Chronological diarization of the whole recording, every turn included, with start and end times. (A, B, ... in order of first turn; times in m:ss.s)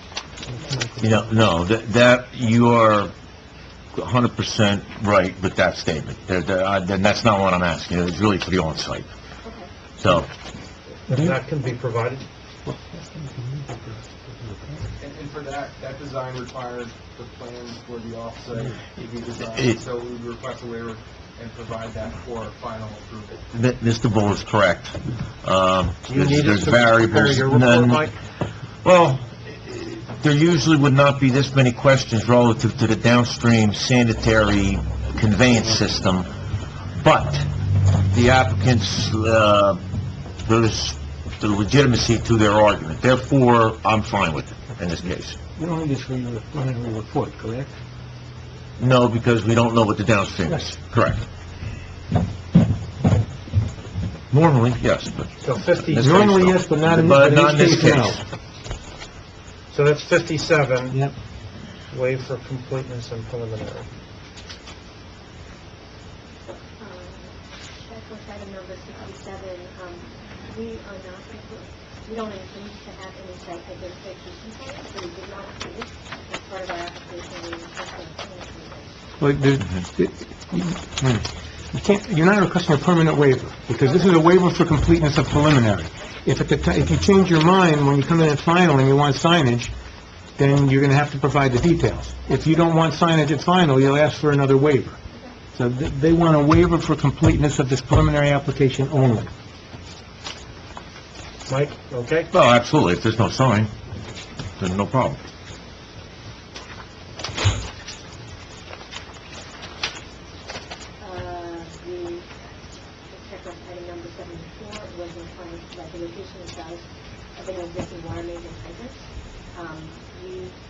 0:00.4-0:01.0 A
0:01.0-0:03.1 B
0:03.9-0:09.1 B
0:09.4-0:09.7 A
0:10.0-0:10.3 B
0:11.0-0:12.2 C
0:12.6-0:14.7 D
0:15.0-0:23.4 E
0:19.5-0:19.8 B
0:23.5-0:36.3 B
0:26.0-0:28.2 C
0:37.0-0:37.5 B
0:38.1-0:39.8 B
0:40.4-0:45.4 B
0:45.6-0:47.8 D
0:48.8-0:51.2 B
0:54.3-0:55.3 B
0:55.4-0:56.5 C
0:55.9-0:58.2 B
0:56.0-0:58.2 D
0:59.7-1:01.0 C
1:01.9-1:03.9 C
1:06.7-1:19.1 A
1:19.2-1:29.7 D
1:30.4-1:35.0 D
1:35.5-1:39.3 D
1:41.5-1:42.3 C
1:42.3-1:43.7 B
1:44.6-1:45.2 B
1:51.0-2:00.6 A